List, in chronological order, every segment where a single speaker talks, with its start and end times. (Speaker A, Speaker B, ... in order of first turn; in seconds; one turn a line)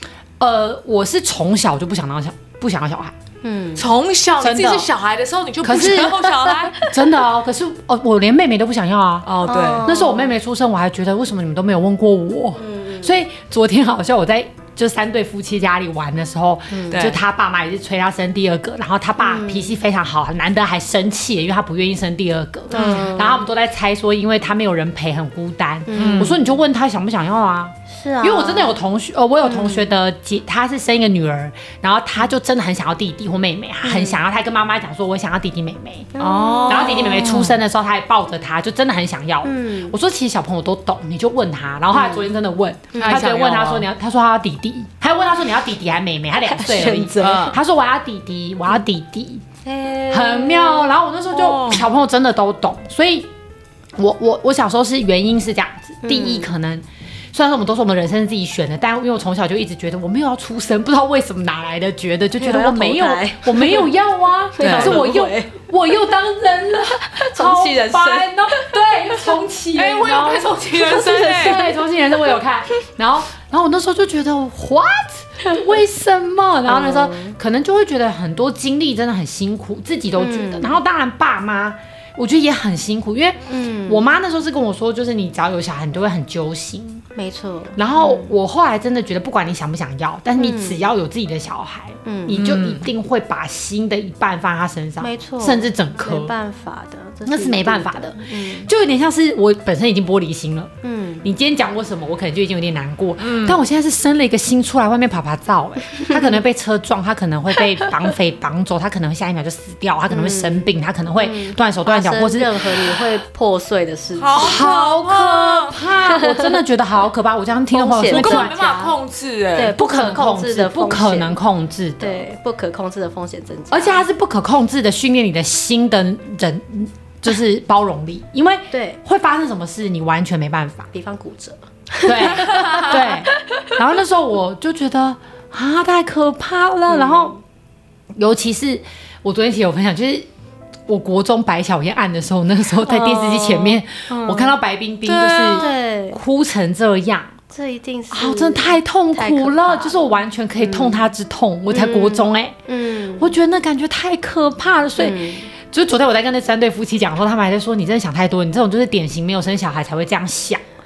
Speaker A: 0.4-3.1
Speaker B: 3.4-3.9
Speaker C: 3.8-6.8
Speaker A: 4.4-4.9
Speaker A: 5.6-6.3
Speaker A: 6.8-9.3
Speaker C: 9.2-9.9
Speaker B: 9.4-10.4
Speaker A: 9.8-36.1
Speaker B: 12.6-13.2
Speaker B: 16.7-17.1
Speaker C: 16.9-17.2
Speaker B: 19.2-19.8
Speaker B: 22.7-23.5
Speaker C: 22.7-23.1
Speaker B: 25.9-26.4
Speaker C: 25.9-26.4
Speaker B: 27.9-28.8
Speaker B: 29.4-29.9
Speaker B: 33.8-34.2
Speaker B: 36.1-37.3
Speaker C: 36.2-37.6
Speaker A: 36.7-49.4
Speaker B: 39.4-40.0
Speaker B: 41.9-42.3
Speaker B: 42.9-43.2
Speaker C: 42.9-43.9
Speaker B: 46.6-47.4
Speaker C: 46.8-47.6
Speaker B: 49.6-50.9
Speaker A: 50.1-53.3
Speaker C: 51.3-51.9
Speaker A: 54.0-87.0
Speaker B: 56.0-56.5
Speaker B: 62.4-63.9
Speaker B: 64.5-65.6
Speaker C: 64.6-65.1
Speaker B: 66.7-68.8
Speaker C: 69.7-71.7
Speaker B: 70.8-71.8
Speaker B: 76.7-77.4
Speaker B: 80.2-80.8
Speaker B: 83.4-84.1
Speaker B: 87.1-88.3
Speaker A: 87.8-96.3
Speaker B: 90.4-90.8
Speaker B: 92.0-92.4
Speaker C: 92.3-92.9
Speaker B: 95.0-98.7
Speaker A: 97.3-100.7
Speaker B: 100.8-101.3
Speaker A: 101.2-112.5
Speaker C: 103.2-103.6
Speaker B: 106.0-106.4
Speaker B: 110.1-114.7
Speaker C: 114.2-115.8
Speaker A: 114.4-118.5
Speaker B: 117.7-119.0
Speaker C: 118.1-119.7
Speaker B: 119.5-121.4
Speaker A: 119.8-122.2
Speaker B: 122.0-124.1
Speaker A: 123.7-130.9
Speaker B: 128.7-129.0
Speaker B: 130.9-133.7
Speaker A: 132.0-137.3
Speaker B: 136.9-137.4
Speaker A: 138.2-140.3
Speaker A: 140.9-147.4
Speaker B: 142.8-144.6
Speaker C: 145.1-145.7
Speaker B: 145.6-146.2
Speaker B: 147.5-150.0
Speaker A: 148.1-152.6
Speaker B: 150.6-151.1
Speaker B: 151.7-153.3
Speaker A: 153.2-160.6
Speaker B: 155.0-155.5